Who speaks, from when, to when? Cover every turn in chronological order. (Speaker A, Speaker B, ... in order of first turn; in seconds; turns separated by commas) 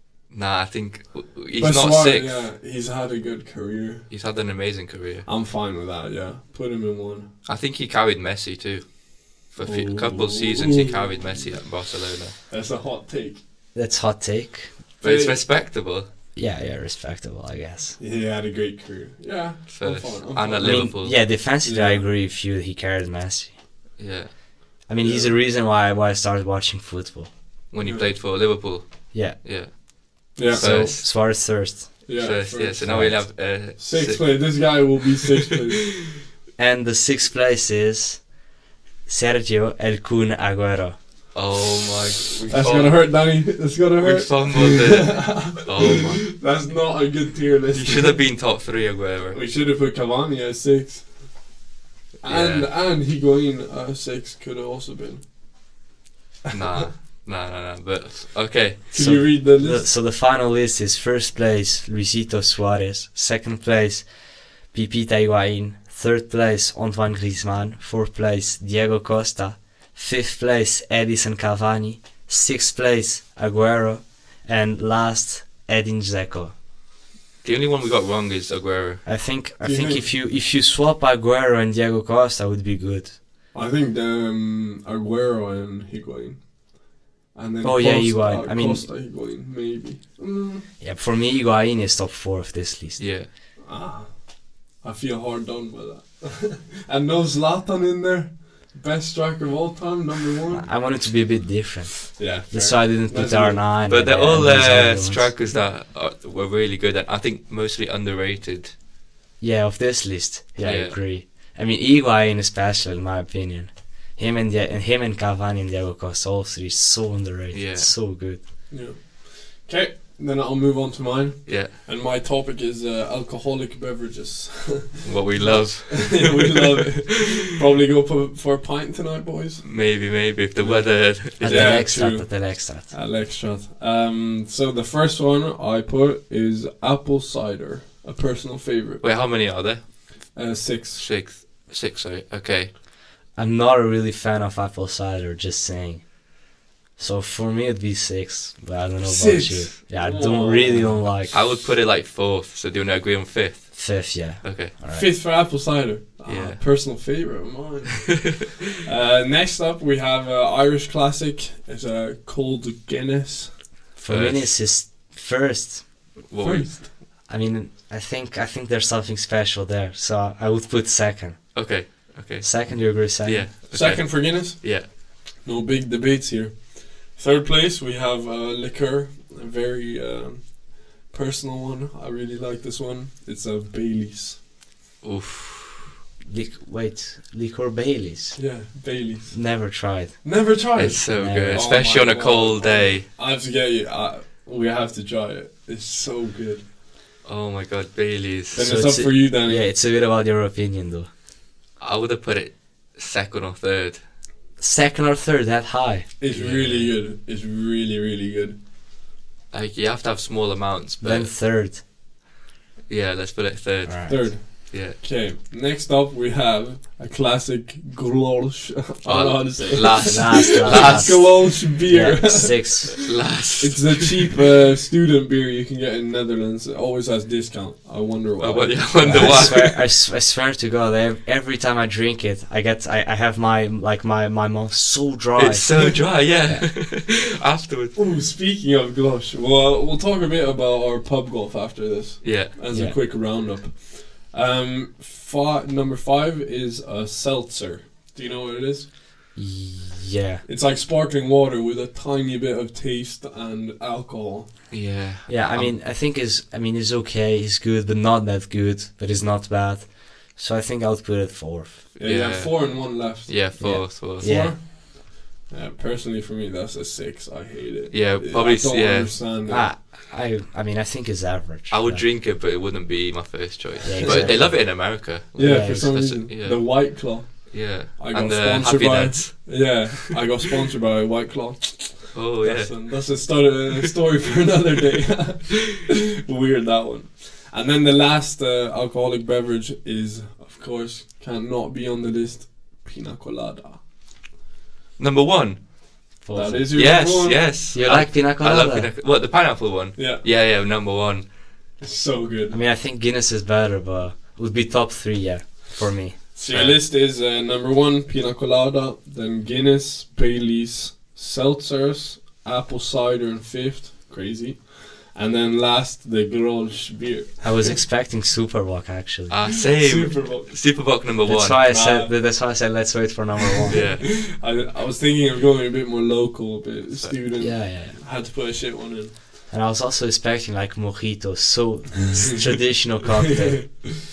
Speaker A: 0.3-2.5, Speaker B: 1.6-4.1, Speaker A: 4.1-5.3, Speaker B: 5.3-7.3, Speaker A: 7.5-12.4, Speaker B: 9.6-11.6, Speaker B: 12.5-13.4, Speaker C: 13.7-14.8, Speaker A: 15.0-16.1, Speaker B: 15.0-15.4, Speaker C: 16.4-18.0, Speaker B: 18.0-22.1, Speaker A: 19.7-21.2, Speaker C: 20.6-23.6, Speaker A: 24.0-24.3, Speaker C: 24.9-27.3, Speaker B: 25.0-25.4, Speaker A: 27.7-31.1, Speaker B: 27.8-28.1, Speaker C: 29.1-29.9, Speaker B: 30.4-31.1, Speaker C: 30.5-32.1, Speaker B: 32.0-36.0, Speaker A: 32.1-34.9, Speaker C: 32.9-33.2, Speaker C: 36.6-38.3, Speaker C: 39.1-41.0, Speaker A: 41.3-43.1, Speaker B: 42.5-48.5, Speaker A: 44.0-46.4, Speaker A: 47.7-49.4, Speaker B: 49.3-51.4, Speaker B: 52.2-55.2, Speaker A: 52.2-52.7, Speaker B: 56.5-56.9, Speaker A: 56.5-59.2, Speaker B: 58.9-59.9, Speaker C: 58.9-76.5, Speaker A: 77.4-79.0, Speaker C: 79.0-83.2, Speaker B: 79.6-80.1, Speaker B: 83.5-90.7, Speaker C: 87.6-88.9, Speaker C: 90.8-93.0, Speaker A: 93.0-93.3, Speaker B: 93.6-100.7, Speaker C: 100.5-105.3, Speaker B: 102.1-103.6, Speaker A: 103.9-108.7, Speaker C: 109.4-118.4, Speaker A: 110.6-111.0, Speaker A: 117.5-117.9, Speaker B: 118.7-129.8, Speaker A: 121.5-121.7, Speaker A: 125.0-127.3, Speaker A: 129.6-131.9, Speaker B: 130.6-139.0, Speaker C: 131.4-132.9, Speaker A: 139.0-139.9, Speaker B: 140.3-141.1, Speaker A: 141.0-142.7, Speaker C: 143.3-146.2, Speaker C: 147.0-151.4, Speaker B: 149.0-151.1, Speaker A: 151.3-154.7, Speaker C: 153.7-155.1, Speaker B: 154.9-163.7, Speaker A: 156.2-156.6, Speaker C: 164.0-165.9, Speaker A: 164.1-164.6, Speaker A: 166.3-166.7, Speaker B: 166.4-166.9, Speaker C: 167.3-173.5, Speaker A: 171.5-174.9, Speaker B: 173.7-184.4, Speaker A: 185.0-185.9, Speaker C: 186.3-188.6, Speaker B: 188.4-189.6, Speaker C: 189.3-190.4, Speaker B: 190.2-196.6, Speaker A: 190.8-193.1, Speaker C: 191.2-191.7, Speaker A: 197.2-198.7, Speaker B: 198.5-199.7, Speaker C: 198.6-201.1, Speaker A: 201.8-204.0, Speaker C: 204.6-206.9, Speaker B: 206.2-208.6, Speaker A: 206.3-206.9, Speaker A: 209.5-211.3, Speaker C: 211.0-211.8, Speaker A: 212.9-215.0, Speaker C: 213.8-214.2, Speaker B: 214.1-223.0, Speaker A: 219.1-221.3, Speaker C: 220.1-223.0, Speaker A: 223.0-224.3, Speaker B: 223.6-229.5, Speaker A: 228.4-229.8, Speaker C: 229.0-236.7, Speaker A: 235.3-238.0, Speaker B: 237.9-248.9, Speaker A: 242.2-242.5, Speaker C: 242.7-243.0, Speaker C: 249.3-250.4, Speaker B: 250.4-254.6, Speaker A: 254.7-255.7, Speaker C: 255.3-261.9, Speaker B: 262.0-269.7, Speaker A: 262.0-264.4, Speaker C: 263.6-264.6, Speaker A: 267.9-269.2, Speaker C: 269.5-272.0, Speaker A: 271.7-280.2, Speaker C: 273.9-276.0, Speaker B: 274.0-274.8, Speaker B: 275.4-293.8, Speaker A: 282.1-283.2, Speaker A: 295.0-295.9, Speaker C: 296.2-298.9, Speaker B: 296.3-297.5, Speaker A: 296.7-301.3, Speaker B: 300.0-300.3, Speaker B: 301.8-302.6, Speaker C: 302.5-306.6, Speaker B: 306.3-317.8, Speaker A: 306.5-306.8, Speaker C: 317.4-319.5, Speaker A: 319.3-321.6, Speaker B: 319.6-320.9, Speaker C: 321.2-323.8, Speaker B: 321.7-322.1, Speaker B: 323.6-329.2, Speaker A: 323.7-324.1, Speaker C: 327.4-328.0, Speaker C: 329.5-333.7, Speaker B: 333.6-333.9